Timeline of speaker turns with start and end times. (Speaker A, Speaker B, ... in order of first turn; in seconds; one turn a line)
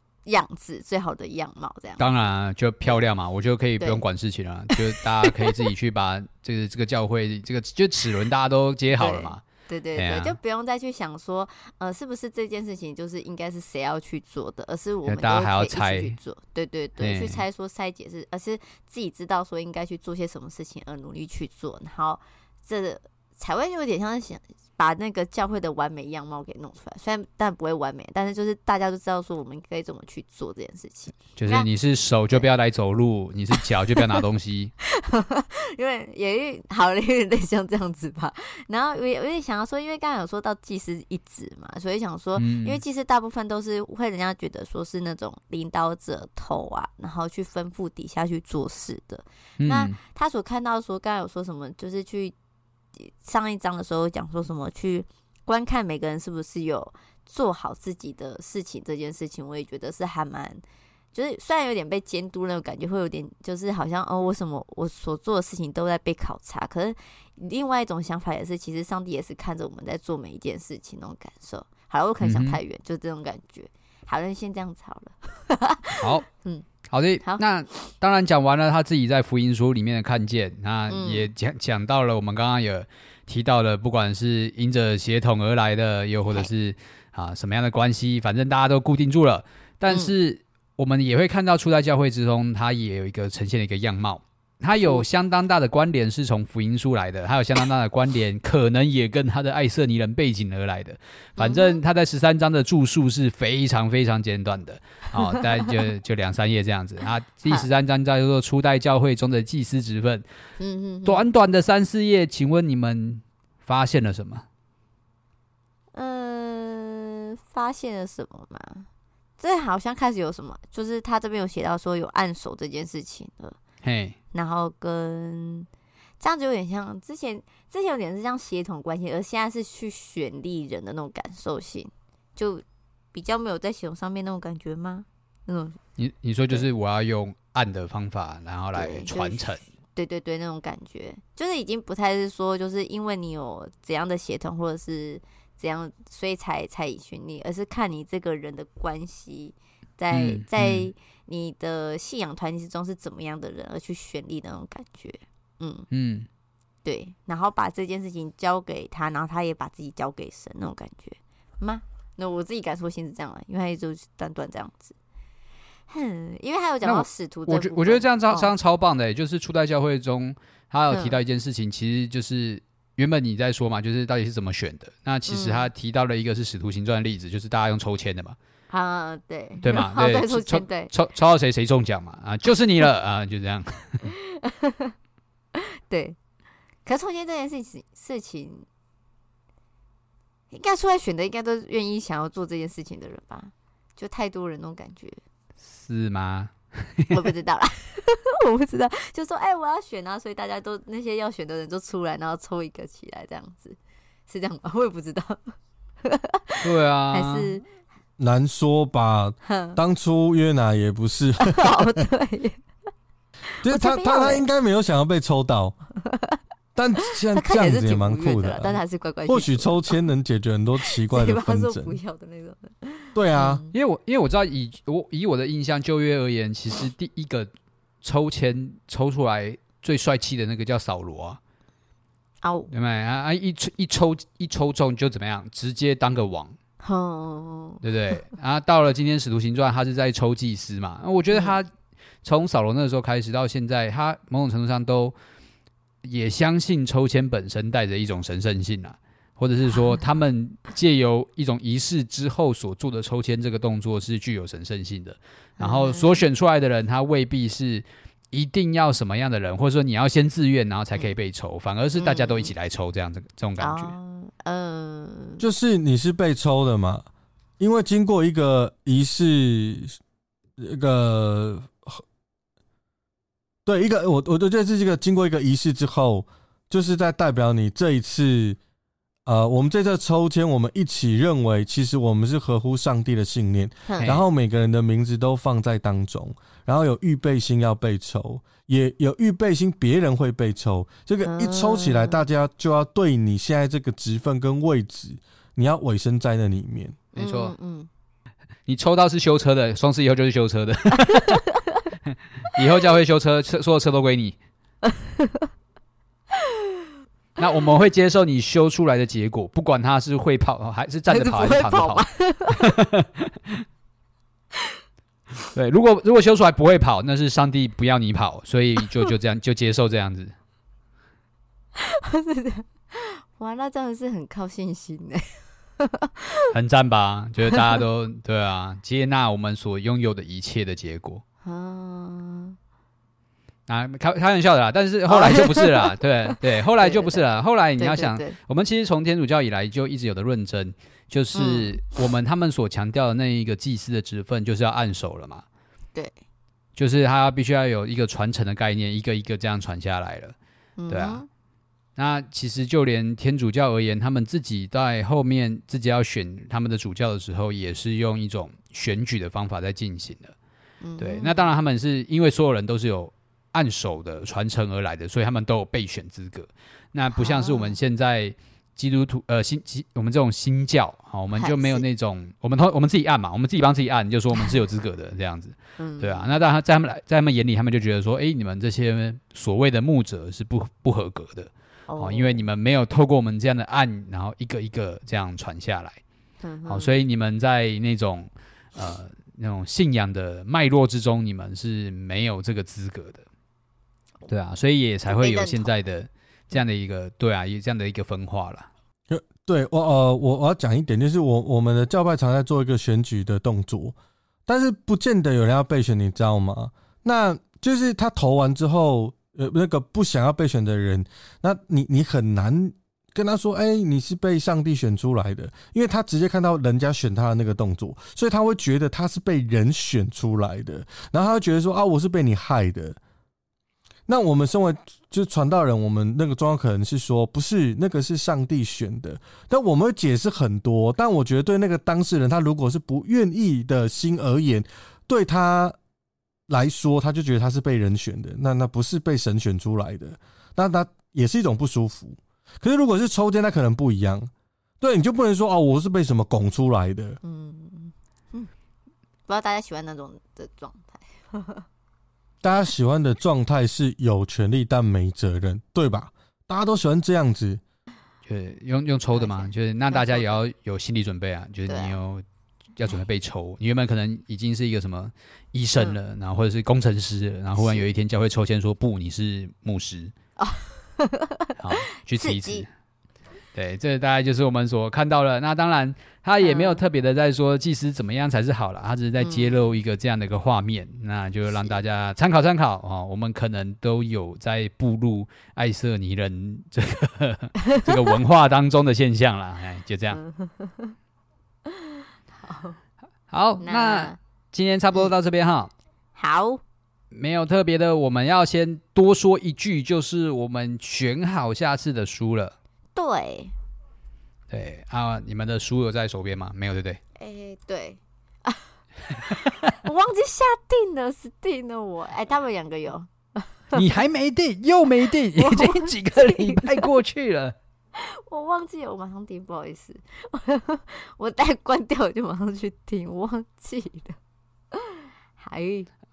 Speaker A: 0.3-2.3
Speaker B: 2.0-9.4
Speaker A: 4.7-5.5
Speaker A: 8.9-31.7
Speaker B: 10.0-10.4
Speaker B: 15.1-16.2
Speaker B: 17.0-17.4
Speaker B: 31.4-34.7
Speaker A: 34.0-34.2
Speaker A: 34.8-52.3
Speaker B: 42.4-42.8
Speaker B: 49.6-50.0
Speaker A: 53.0-60.6
Speaker A: 61.1-76.7
Speaker B: 72.2-72.6
Speaker B: 76.0-76.3
Speaker B: 76.9-110.3
Speaker A: 80.9-81.3
Speaker A: 101.4-101.8
Speaker A: 105.2-105.7
Speaker A: 110.6-111.2
Speaker B: 111.1-114.5
Speaker A: 115.9-118.9
Speaker A: 119.4-123.6
Speaker B: 123.8-124.2
Speaker A: 124.3-125.7
Speaker A: 126.2-135.8
Speaker B: 136.0-139.7
Speaker A: 138.7-155.9
Speaker B: 150.1-150.9
Speaker B: 155.9-156.3
Speaker A: 156.8-164.9
Speaker A: 165.9-168.5
Speaker B: 166.8-178.4
Speaker A: 170.9-171.2
Speaker A: 175.3-175.7
Speaker A: 178.7-180.9
Speaker B: 179.6-184.0
Speaker A: 184.0-184.9
Speaker A: 185.6-186.2
Speaker A: 186.8-188.7
Speaker A: 190.5-195.2
Speaker B: 195.6-197.2
Speaker A: 197.1-207.6
Speaker B: 206.6-207.6
Speaker C: 208.2-212.0
Speaker A: 209.4-209.8
Speaker A: 211.4-212.6
Speaker A: 213.6-214.4
Speaker C: 213.6-215.8
Speaker A: 216.1-216.4
Speaker C: 216.8-222.0
Speaker A: 217.1-219.9
Speaker A: 220.8-223.7
Speaker C: 223.2-223.6
Speaker B: 223.7-227.5
Speaker B: 228.0-231.4
Speaker A: 232.4-232.7
Speaker B: 232.7-236.6
Speaker A: 236.8-237.8
Speaker B: 237.8-241.7
Speaker A: 241.3-241.6
Speaker B: 242.2-245.2
Speaker B: 246.0-263.9
Speaker A: 249.8-250.0
Speaker A: 255.6-256.2
Speaker A: 262.0-262.5
Speaker A: 263.6-265.4
Speaker C: 265.4-267.1
Speaker C: 267.6-270.0
Speaker C: 270.6-272.0
Speaker C: 273.6-278.6
Speaker C: 279.3-297.0
Speaker A: 283.9-284.2
Speaker A: 291.2-292.2
Speaker A: 297.1-297.9
Speaker B: 297.2-297.6
Speaker B: 298.7-301.5
Speaker B: 302.5-304.4
Speaker A: 304.8-305.5
Speaker B: 307.4-313.6
Speaker A: 311.1-312.8
Speaker B: 315.5-320.3
Speaker A: 321.8-326.5
Speaker B: 326.5-331.2
Speaker A: 331.4-332.6
Speaker B: 333.7-345.4
Speaker A: 335.1-335.9
Speaker A: 336.8-337.2
Speaker A: 337.8-338.4
Speaker A: 341.3-341.8
Speaker B: 346.8-350.4
Speaker A: 350.8-351.3
Speaker B: 350.9-351.2
Speaker B: 352.0-360.4
Speaker A: 360.8-361.5
Speaker B: 361.0-386.0
Speaker A: 367.1-367.8
Speaker A: 371.4-371.9
Speaker A: 375.8-376.3
Speaker A: 381.9-382.5
Speaker A: 386.4-387.0
Speaker B: 386.7-393.2
Speaker B: 394.3-398.7
Speaker A: 395.1-395.7
Speaker C: 399.1-403.9
Speaker C: 404.5-423.0
Speaker C: 424.1-435.8
Speaker C: 436.5-447.2
Speaker A: 447.2-448.5
Speaker A: 449.3-451.6
Speaker C: 452.4-457.6
Speaker B: 458.3-462.2
Speaker A: 459.1-460.4
Speaker A: 461.7-462.0
Speaker B: 462.8-470.1
Speaker A: 467.6-467.9
Speaker A: 470.4-472.6
Speaker B: 471.6-472.7
Speaker B: 473.5-490.2
Speaker A: 476.4-476.8
Speaker A: 479.2-479.6
Speaker A: 490.1-490.9
Speaker A: 491.7-492.8
Speaker B: 493.3-495.7
Speaker A: 493.6-494.2
Speaker A: 496.2-496.6
Speaker B: 497.1-502.6
Speaker A: 502.9-503.5
Speaker B: 504.5-507.0
Speaker A: 507.2-508.7
Speaker A: 509.2-513.8
Speaker B: 513.7-517.5
Speaker A: 515.4-516.7
Speaker A: 518.0-524.2
Speaker A: 524.7-525.9